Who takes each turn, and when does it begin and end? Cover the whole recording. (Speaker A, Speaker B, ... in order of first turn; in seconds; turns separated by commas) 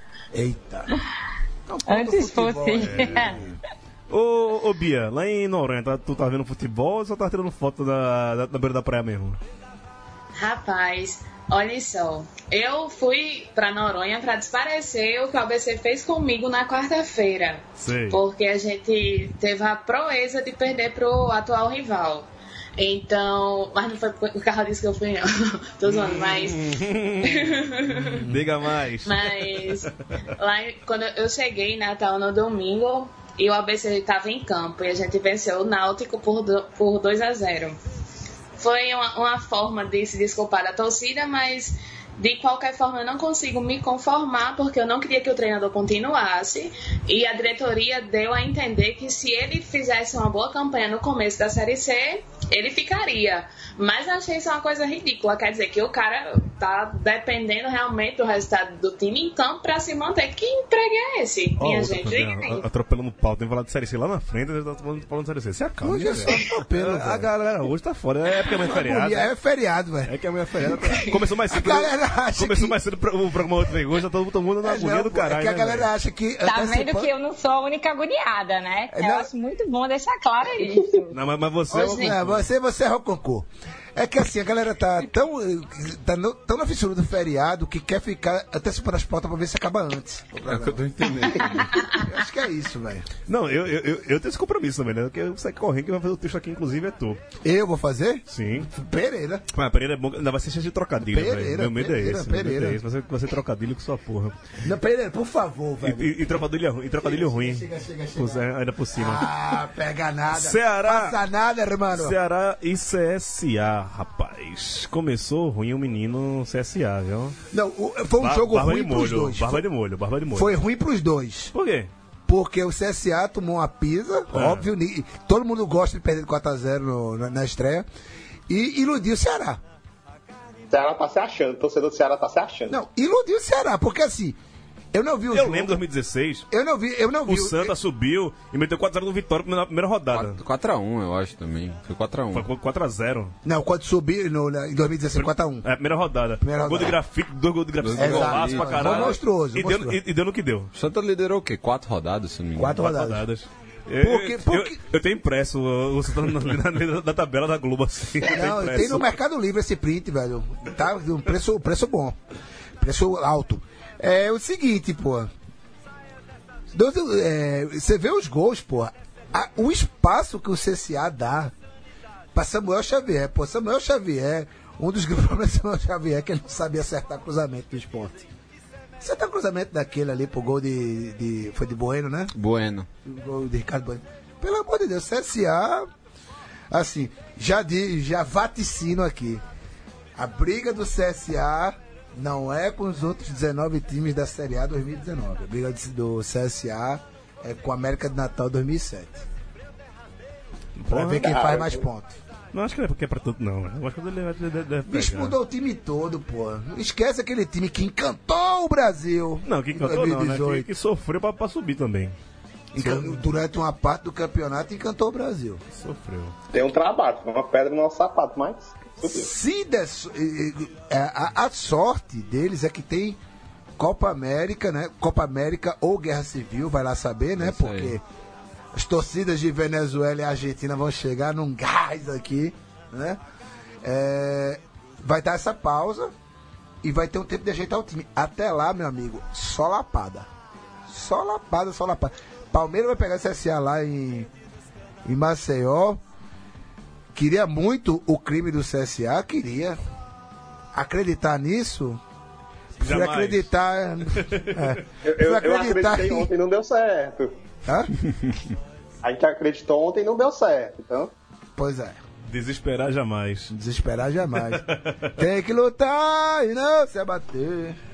Speaker A: 0.3-0.9, Speaker A: 1.7-3.6, Speaker B: 1.9-3.4, Speaker C: 2.9-3.3, Speaker C: 4.1-9.4, Speaker D: 10.3-28.3, Speaker C: 17.8-18.2, Speaker C: 25.9-29.9, Speaker D: 29.0-37.8, Speaker D: 38.6-62.6, Speaker C: 61.6-69.3, Speaker A: 65.8-67.3, Speaker A: 68.6-70.1, Speaker C: 70.1-75.9, Speaker A: 71.0-72.8, Speaker A: 74.6-77.1, Speaker B: 76.4-81.2, Speaker A: 78.9-79.3, Speaker C: 81.1-82.5, Speaker A: 81.7-90.8, Speaker D: 81.8-82.0, Speaker E: 90.5-91.8, Speaker A: 91.4-93.1, Speaker C: 93.3-97.2, Speaker A: 97.4-99.5, Speaker C: 98.3-98.7, Speaker C: 99.5-104.3, Speaker A: 101.0-102.8, Speaker A: 104.6-106.4, Speaker C: 105.8-107.7, Speaker A: 107.0-112.2, Speaker C: 108.2-109.3, Speaker C: 110.3-111.2, Speaker C: 111.9-117.4, Speaker A: 117.5-119.6, Speaker C: 118.2-120.6, Speaker A: 120.3-121.5, Speaker C: 121.5-121.9, Speaker A: 122.3-127.9, Speaker C: 124.3-124.7, Speaker A: 128.5-129.6, Speaker F: 130.7-132.8, Speaker A: 132.7-134.4, Speaker A: 134.9-135.8, Speaker C: 135.3-136.5, Speaker A: 136.5-137.7, Speaker C: 137.3-140.4, Speaker E: 140.1-142.5, Speaker C: 142.3-143.3, Speaker A: 143.4-145.7, Speaker C: 145.2-150.7, Speaker A: 146.4-147.0, Speaker E: 147.8-149.2, Speaker A: 147.9-150.0, Speaker E: 150.8-152.9, Speaker A: 152.6-153.3, Speaker C: 152.8-159.1, Speaker A: 154.0-154.8, Speaker A: 158.3-162.2, Speaker A: 162.8-165.3, Speaker A: 166.7-171.5, Speaker A: 172.3-178.3, Speaker A: 179.0-182.3, Speaker E: 182.3-182.9, Speaker A: 183.1-185.9, Speaker A: 186.7-189.4, Speaker A: 190.2-199.2, Speaker C: 200.8-201.4, Speaker A: 200.9-202.2, Speaker F: 201.2-201.8, Speaker C: 202.5-205.4, Speaker A: 204.9-210.7, Speaker C: 209.4-212.1, Speaker A: 212.7-215.6, Speaker C: 212.8-213.2, Speaker C: 215.8-216.3, Speaker F: 216.5-219.3, Speaker A: 219.0-223.2, Speaker A: 223.8-228.0, Speaker E: 227.4-228.0, Speaker A: 228.7-233.2, Speaker A: 233.8-236.1, Speaker A: 236.8-240.3, Speaker A: 240.9-244.3, Speaker A: 245.1-246.0, Speaker A: 247.2-249.8, Speaker A: 250.7-252.0, Speaker A: 252.8-256.3, Speaker C: 252.8-253.5, Speaker C: 254.1-254.8, Speaker F: 255.0-257.4, Speaker A: 257.7-257.9, Speaker F: 259.0-261.1, Speaker A: 261.6-262.0, Speaker C: 262.3-263.5, Speaker A: 263.5-264.7, Speaker C: 264.3-265.2, Speaker A: 265.2-267.8